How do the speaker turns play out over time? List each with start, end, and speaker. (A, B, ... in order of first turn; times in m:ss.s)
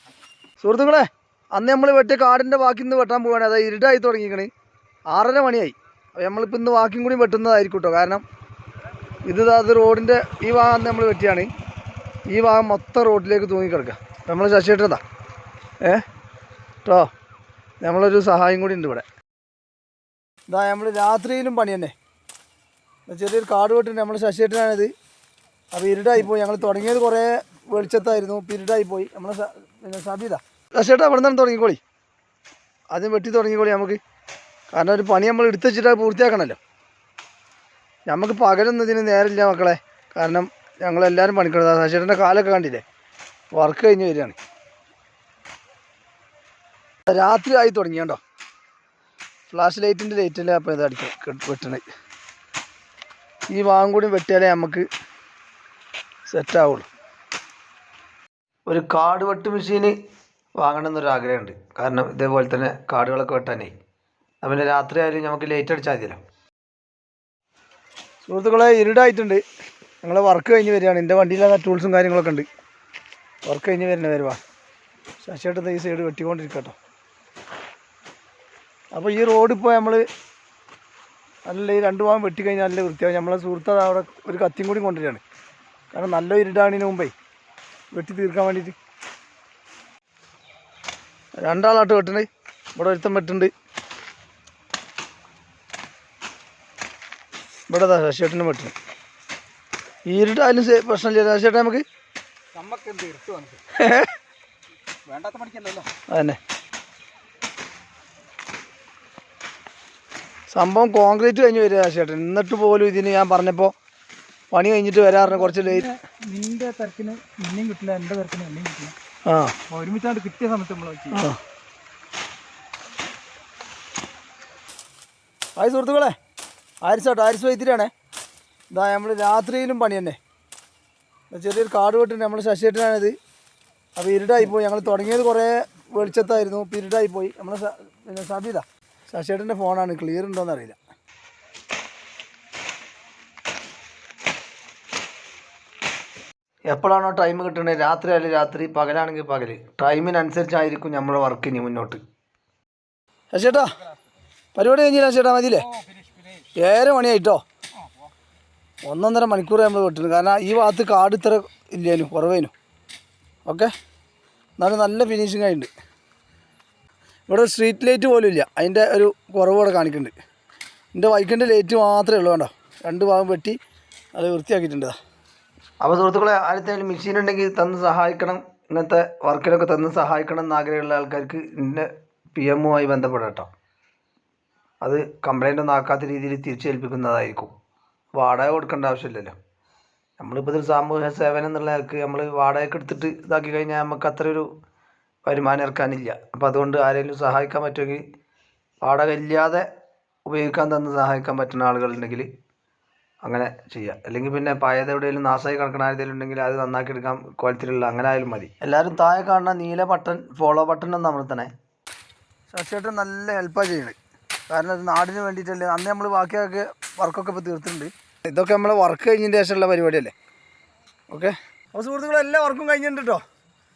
0:00.6-0:04.5 A
0:05.1-0:08.2 A
0:09.2-0:11.5 A
0:12.3-0:15.0 A
0:17.8-0:19.0 A
0:20.5-0:21.9 A
0:23.1-0:24.9 A
0:25.7-0:31.8 A
0:32.9-0:34.0 A
0:34.7-0:36.6 A
0:38.1-0:42.8 A
0:43.5-0:44.4 A
0:47.1-0:48.2 A
0:49.5-0:51.8 A
0:53.5-0:54.8 A
0:56.3-0:56.8 A
0:58.7-1:00.0 A
1:00.6-1:03.7 A
1:04.4-1:06.2 A
1:08.2-1:09.4 A
1:10.0-1:12.5 A
1:13.4-1:14.4 A
1:15.2-1:16.8 A
1:18.9-1:20.0 A
1:21.5-1:25.2 A
1:25.9-1:27.1 A
1:27.9-1:28.8 A
1:31.4-1:33.5 A
1:37.7-1:38.7 A
1:40.1-1:41.8 A
1:42.5-1:43.6 B
1:43.7-1:44.1 A
1:45.1-1:45.9 B
1:46.1-1:46.4 A
1:50.5-1:53.7 A
1:54.5-1:55.9 A
1:55.2-1:58.9 B
1:59.2-1:59.5 A
1:59.7-2:01.2 B
2:01.1-2:01.4 A
2:05.6-2:06.1 A
2:06.8-2:07.9 A
2:08.7-2:10.2 A
2:11.3-2:13.2 A
2:14.0-2:20.8 A
2:26.7-2:32.0 A
2:33.3-2:33.7 A
2:34.5-2:35.7 A
2:36.5-2:37.4 A
2:38.8-2:42.5 A
2:43.4-2:43.7 A
2:44.6-2:45.7 A
2:47.3-2:50.1 A
2:50.9-2:53.6 A
2:54.1-2:54.9 A
2:55.8-3:03.5 A
3:04.8-3:07.5 A
3:08.1-3:09.3 A
3:10.2-3:14.5 A
3:15.2-3:18.0 A
3:18.8-3:19.6 A
3:20.2-3:22.3 A
3:23.2-3:31.5 A
3:32.5-3:34.0 A
3:34.5-3:40.1 A
3:41.1-3:43.2 A